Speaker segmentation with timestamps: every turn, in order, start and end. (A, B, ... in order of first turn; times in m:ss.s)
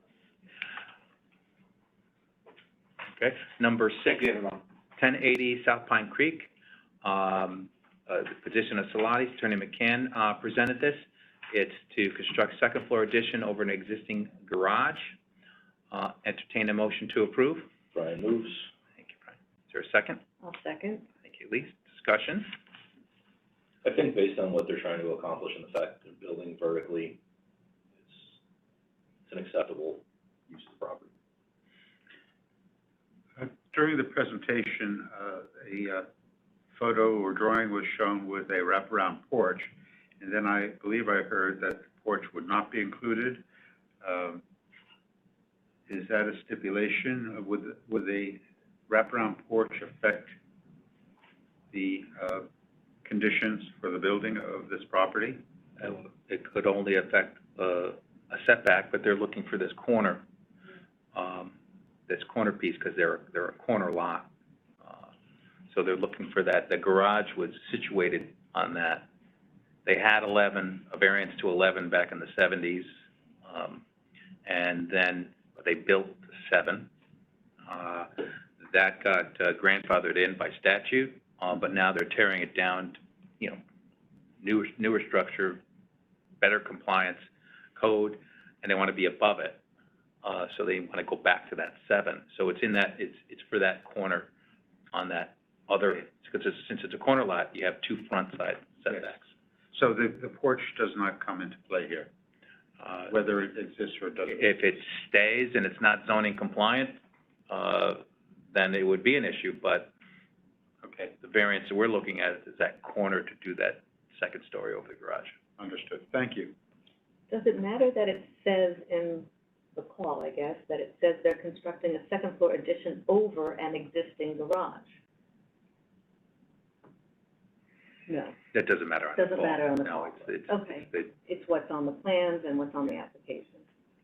0:03.2-0:06.5 A
0:07.0-0:15.2 A
0:15.9-0:17.7 A
0:17.9-0:18.7 B
0:19.0-0:20.2 A
0:20.4-0:21.1 C
0:21.2-0:22.5 A
0:23.8-0:27.2 B
0:28.0-0:28.4 B
0:29.3-0:31.1 B
0:33.4-0:36.1 D
0:36.7-0:43.4 D
0:44.0-0:44.4 D
0:45.9-0:50.4 D
0:51.7-0:52.5 D
0:53.0-0:55.4 D
0:55.8-1:00.2 A
1:01.1-1:01.6 A
1:02.1-1:04.3 A
1:04.8-1:05.1 A
1:05.7-1:09.1 A
1:09.8-1:12.9 A
1:13.5-1:13.8 A
1:14.5-1:16.9 A
1:17.7-1:23.6 A
1:24.4-1:25.6 A
1:26.4-1:27.2 A
1:27.8-1:29.6 A
1:30.2-1:34.3 A
1:34.9-1:39.3 A
1:39.7-1:42.1 D
1:42.8-1:43.1 A
1:43.1-1:44.6 D
1:44.3-1:47.0 A
1:47.5-1:49.9 A
1:51.0-1:55.3 A
1:55.6-1:56.5 D
1:57.3-2:04.9 C
2:08.1-2:08.4 C
2:08.5-2:11.1 A
2:09.1-2:13.6 C